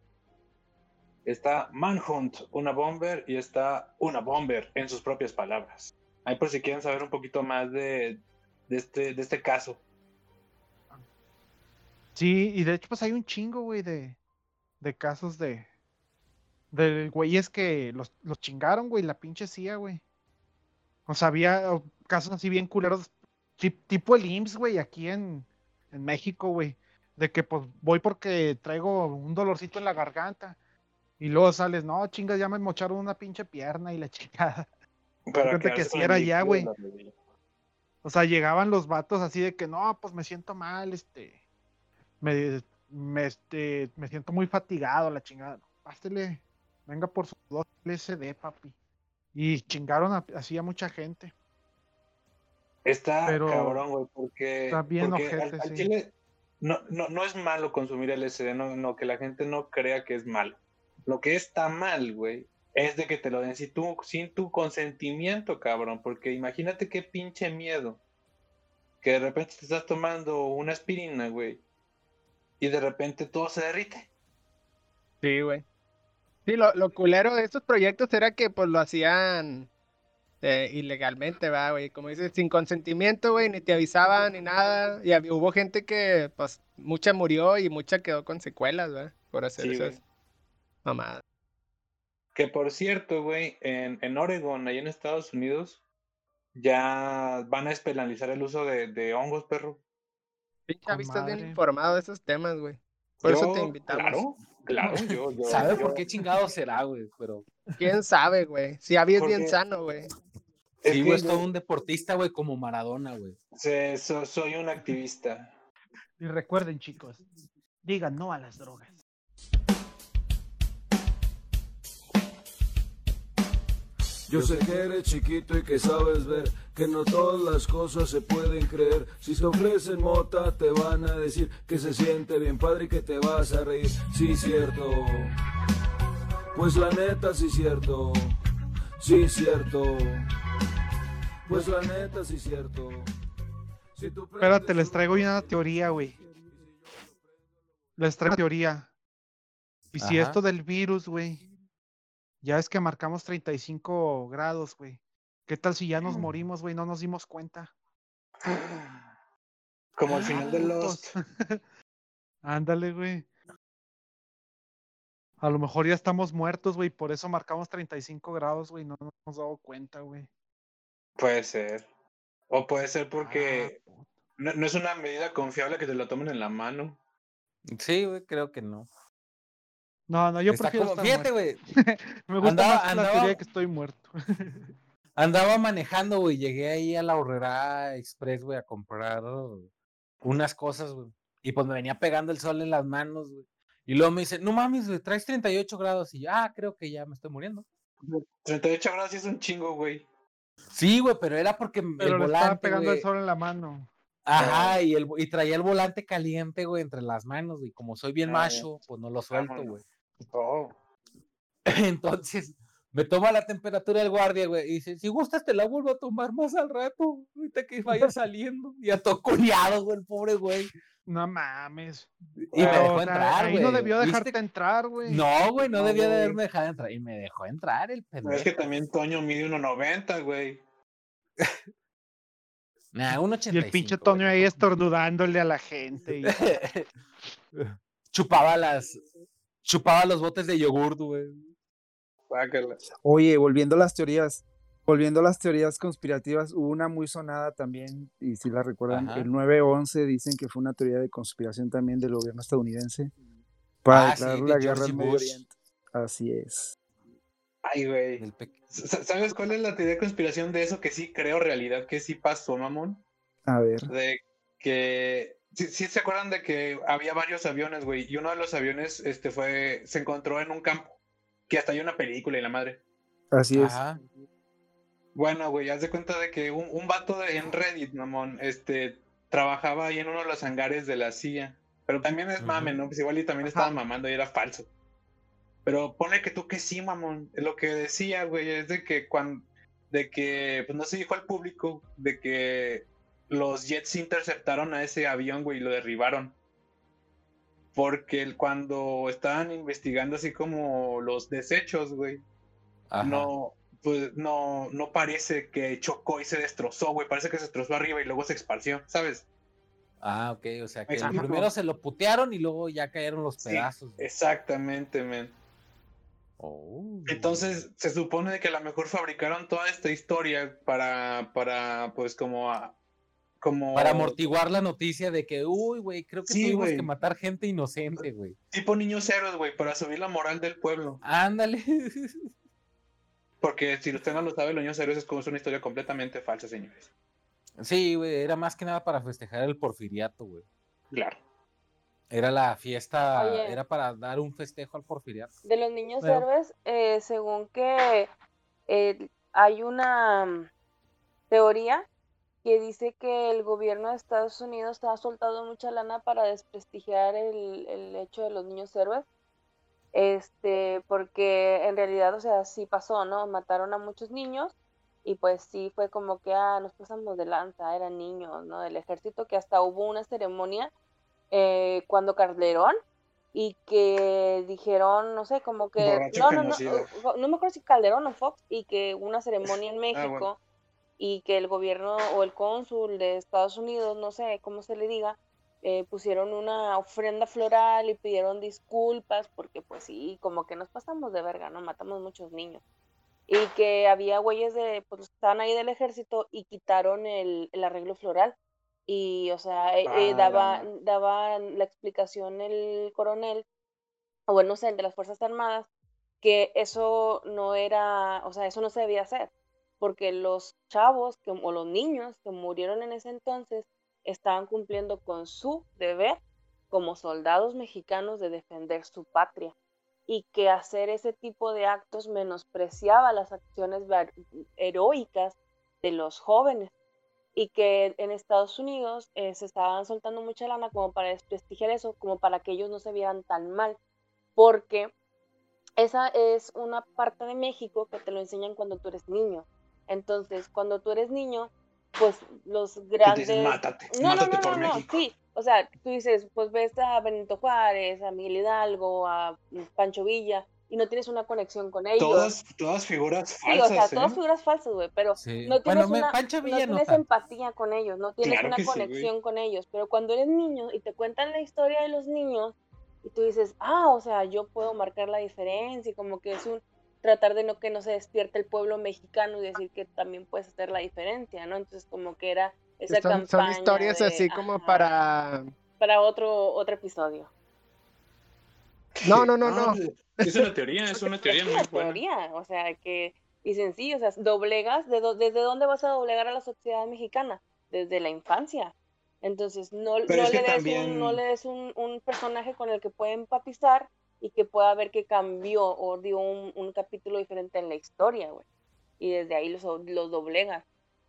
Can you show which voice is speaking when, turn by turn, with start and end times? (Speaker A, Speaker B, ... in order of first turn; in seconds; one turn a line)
Speaker A: 1.2-9.8
Speaker B: 12.2-14.2
Speaker B: 14.8-15.7
Speaker B: 16.7-20.0
Speaker B: 21.1-30.6
Speaker B: 31.2-34.6
Speaker A: 35.3-37.1
Speaker B: 35.4-36.7
Speaker B: 38.0-41.4
Speaker B: 42.2-48.8
Speaker B: 49.3-51.3
Speaker A: 52.9-68.0
Speaker B: 53.2-53.8
Speaker B: 54.7-55.9
Speaker A: 69.0-71.6
Speaker A: 72.6-74.1
Speaker C: 75.2-75.7
Speaker C: 76.5-79.7
Speaker C: 80.4-90.0
Speaker A: 89.6-90.0
Speaker C: 90.8-91.2
Speaker A: 92.3-95.8
Speaker A: 96.5-99.8
Speaker C: 100.7-104.2
Speaker B: 100.9-101.6
Speaker A: 103.2-106.0
Speaker D: 105.4-107.5
Speaker C: 107.8-110.1
Speaker A: 109.1-109.6
Speaker A: 110.8-111.5
Speaker D: 110.9-113.4
Speaker A: 113.5-115.5
Speaker B: 116.2-117.2
Speaker B: 117.8-118.9
Speaker E: 124.3-135.3
Speaker E: 136.5-138.3
Speaker E: 139.0-140.3
Speaker E: 141.5-143.1
Speaker E: 143.9-145.6
Speaker B: 144.4-146.2
Speaker E: 146.2-146.7
Speaker B: 148.0-148.9
Speaker B: 149.9-151.4
Speaker D: 150.0-150.4
Speaker B: 152.4-157.7
Speaker A: 158.4-159.1
Speaker A: 160.0-161.2
Speaker B: 160.1-161.6
Speaker B: 162.4-163.3
Speaker B: 165.4-170.3
Speaker A: 171.2-171.9
Speaker A: 172.5-173.8
Speaker B: 173.2-174.1
Speaker A: 174.4-177.0
Speaker D: 177.7-178.9
Speaker B: 180.1-184.6
Speaker D: 180.5-181.6
Speaker D: 182.4-183.4
Speaker D: 185.2-189.7
Speaker D: 190.2-197.7
Speaker A: 198.0-200.1
Speaker D: 200.7-203.1
Speaker B: 202.0-203.9
Speaker D: 204.3-209.8
Speaker A: 204.4-204.8
Speaker A: 208.2-208.7
Speaker A: 209.3-209.8
Speaker A: 210.3-210.7
Speaker D: 211.7-220.7
Speaker B: 221.1-225.2
Speaker D: 222.4-224.3
Speaker A: 222.5-223.0
Speaker D: 225.1-228.5
Speaker A: 225.7-226.4
Speaker A: 228.2-230.6
Speaker D: 232.9-234.5
Speaker B: 233.5-236.4
Speaker D: 236.2-236.9
Speaker D: 237.6-239.0
Speaker D: 239.6-241.4
Speaker A: 242.3-242.8
Speaker F: 243.0-253.1
Speaker D: 248.9-249.3
Speaker F: 253.8-256.7
Speaker D: 253.9-255.4
Speaker A: 257.6-263.0
Speaker D: 258.2-258.6
Speaker F: 263.5-263.9
Speaker A: 263.9-271.0
Speaker A: 271.5-272.8
Speaker F: 273.3-273.8
Speaker D: 273.6-274.0
Speaker A: 275.1-284.7
Speaker D: 282.4-282.8
Speaker C: 283.4-283.8
Speaker A: 285.6-296.4
Speaker A: 297.8-302.2
Speaker D: 302.9-303.3
Speaker A: 303.0-309.2
Speaker D: 310.0-314.0
Speaker A: 310.9-311.5
Speaker A: 313.4-315.4
Speaker D: 316.4-317.6
Speaker A: 317.1-322.8
Speaker A: 323.4-324.3
Speaker D: 323.7-328.4
Speaker A: 326.2-326.9
Speaker A: 328.5-331.0
Speaker D: 331.0-332.3
Speaker A: 333.4-336.9
Speaker D: 337.6-340.4
Speaker A: 340.9-341.2
Speaker D: 342.1-345.3
Speaker G: 343.1-343.6
Speaker G: 345.4-348.1
Speaker D: 346.0-346.3
Speaker G: 348.7-350.5
Speaker G: 351.3-351.9
Speaker G: 352.4-359.1
Speaker G: 359.9-364.5
Speaker G: 365.1-370.7
Speaker G: 371.3-372.8
Speaker G: 373.3-380.4
Speaker A: 375.8-376.9
Speaker A: 379.9-380.3
Speaker G: 381.0-392.6
Speaker G: 393.3-398.4
Speaker G: 398.9-403.4
Speaker A: 399.9-400.7
Speaker G: 404.3-405.7
Speaker G: 406.2-416.2
Speaker G: 416.7-419.5
Speaker G: 420.1-426.7
Speaker G: 427.4-433.8
Speaker G: 434.4-434.9
Speaker G: 435.8-452.3
Speaker A: 443.0-445.0
Speaker A: 452.0-454.2
Speaker G: 453.4-474.9
Speaker D: 455.2-457.0
Speaker A: 458.2-459.1
Speaker C: 472.9-475.4
Speaker G: 475.8-477.3
Speaker A: 479.0-482.0
Speaker C: 479.0-480.5
Speaker G: 480.9-498.4
Speaker A: 490.1-491.2
Speaker G: 499.0-500.6